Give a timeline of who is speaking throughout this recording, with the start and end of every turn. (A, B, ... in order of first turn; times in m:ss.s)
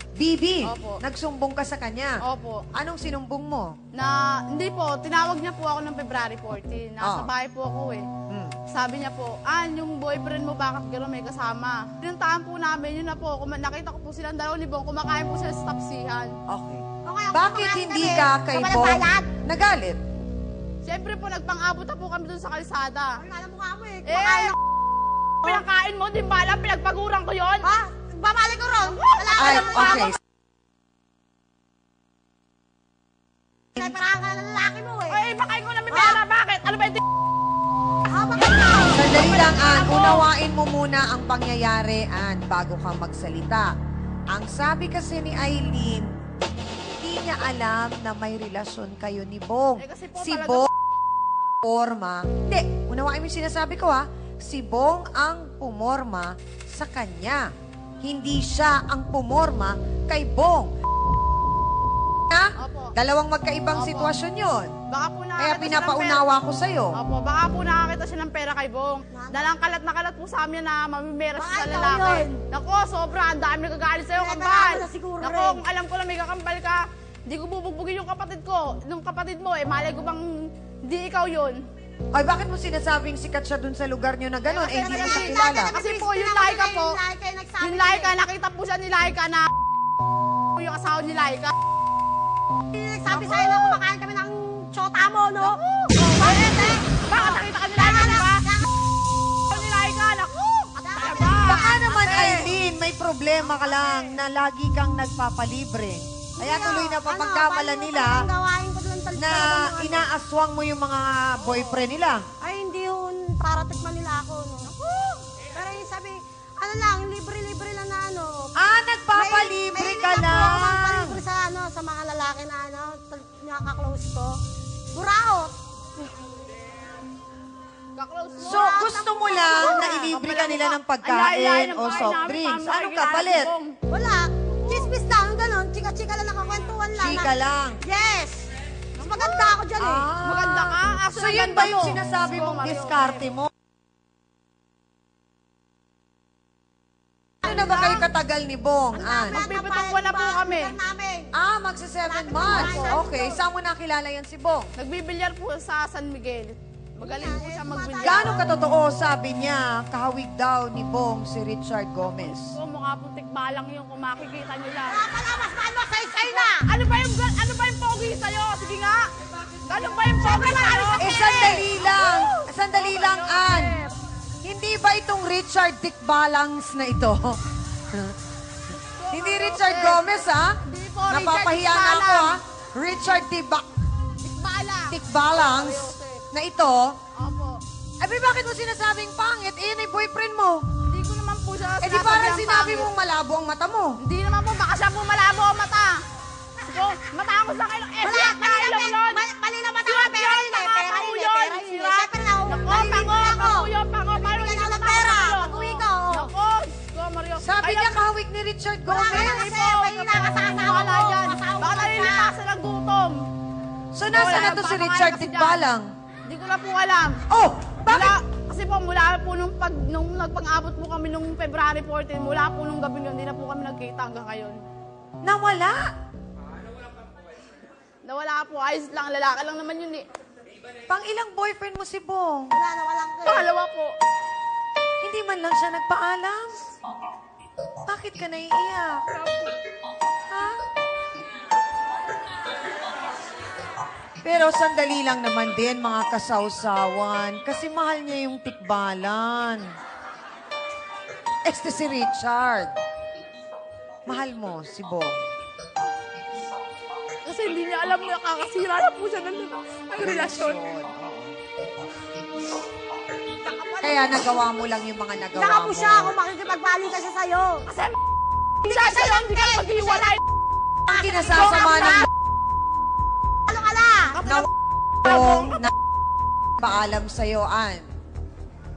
0:00.2-0:02.2 A
0:00.7-0:01.0 B
0:02.2-0:02.6 B
0:02.7-0:03.7 A
0:03.9-0:08.1 B
0:07.0-0:07.3 A
0:08.3-0:08.6 A
0:08.7-0:16.3 B
0:16.5-0:20.0 A
0:17.0-0:19.3 C
0:20.8-0:23.2 B
0:23.2-0:24.5 C
0:24.0-0:24.5 B
0:25.4-0:27.7 B
0:27.6-0:30.1 C
0:28.9-0:30.1 B
0:29.4-0:30.2 A
0:33.8-0:35.2 C
0:35.1-0:37.0 B
0:35.9-0:36.2 C
0:38.1-0:39.1 C
0:38.4-0:40.3 B
0:38.9-0:43.7 A
0:44.3-0:46.1 A
0:47.0-0:50.7 A
0:49.8-0:50.7 B
0:51.6-0:57.5 A
0:58.0-1:00.8 A
1:02.3-1:04.7 A
1:02.6-1:02.9 B
1:03.7-1:04.1 B
1:04.9-1:06.2 B
1:05.4-1:06.9 A
1:07.0-1:21.6 B
1:09.1-1:09.5 C
1:11.4-1:12.4 C
1:14.2-1:15.6 C
1:22.1-1:25.7 A
1:24.4-1:26.9 B
1:24.7-1:28.1 C
1:27.6-1:29.5 B
1:30.5-1:31.5 B
1:32.7-1:38.6 C
1:33.1-1:33.8 B
1:35.4-1:38.5 B
1:39.5-1:42.5 B
1:40.8-1:41.7 C
1:41.4-1:48.2 A
1:43.4-1:44.2 B
1:46.4-1:50.1 C
1:49.2-1:52.2 A
1:51.4-1:51.8 B
1:52.4-1:54.7 C
1:54.7-1:55.2 B
1:55.5-1:58.5 C
1:58.6-2:01.2 A
1:59.1-2:04.4 C
2:04.9-2:05.5 C
2:08.0-2:13.7 B
2:08.4-2:13.5 A
2:08.7-2:10.1 C
2:13.9-2:18.5 C
2:14.6-2:14.9 B
2:16.9-2:17.8 A
2:19.0-2:19.6 B
2:19.0-2:20.1 C
2:19.7-2:23.5 A
2:20.2-2:23.2 B
2:27.4-2:29.4 A
2:27.4-2:28.1 B
2:28.9-2:31.3 C
2:29.3-2:30.7 B
2:31.3-2:34.7 A
2:32.0-2:33.3 C
2:32.4-2:33.1 B
2:34.8-2:38.4 B
2:37.0-2:38.6 C
2:38.0-2:42.6 A
2:42.0-2:45.0 B
2:44.9-2:46.6 C
2:46.2-2:49.0 B
2:49.7-2:53.9 B
2:50.3-2:51.6 C
2:51.0-2:53.8 A
2:54.4-2:57.4 A
2:59.0-3:02.4 B
2:59.1-3:00.6 A
3:01.1-3:03.6 A
3:04.2-3:06.2 B
3:04.9-3:07.0 A
3:07.2-3:07.6 B
3:08.0-3:10.6 A
3:10.9-3:12.9 B
3:11.8-3:14.0 A
3:14.0-3:15.9 B
3:16.6-3:19.2 B
3:18.0-3:26.3 C
3:19.8-3:28.0 B
3:27.4-3:29.3 A
3:28.9-3:33.2 B
3:28.9-3:32.3 C
3:33.9-3:35.9 A
3:34.1-3:35.6 B
3:36.3-3:37.2 B
3:37.3-3:38.1 A
3:37.8-3:44.6 B
3:45.2-3:45.9 A
3:48.0-3:50.1 B
3:50.9-3:52.6 A
3:52.5-3:53.5 C
3:53.2-3:53.9 B
3:55.0-3:56.6 A
3:57.8-3:59.0 A
4:00.3-4:00.6 A
4:04.2-4:09.7 A
4:11.4-4:12.7 A
4:14.0-4:15.2 A
4:17.2-4:20.6 B
4:20.0-4:21.4 A
4:23.4-4:24.3 C
4:23.8-4:26.1 A
4:25.3-4:27.6 C
4:27.7-4:27.9 B
4:28.6-4:30.2 B
4:28.6-4:30.1 C
4:30.9-4:32.1 A
4:30.9-4:32.0 C
4:33.5-4:34.2 C
4:34.1-4:34.5 B
4:35.0-4:35.7 A
4:35.0-4:35.4 B
4:36.6-4:37.9 A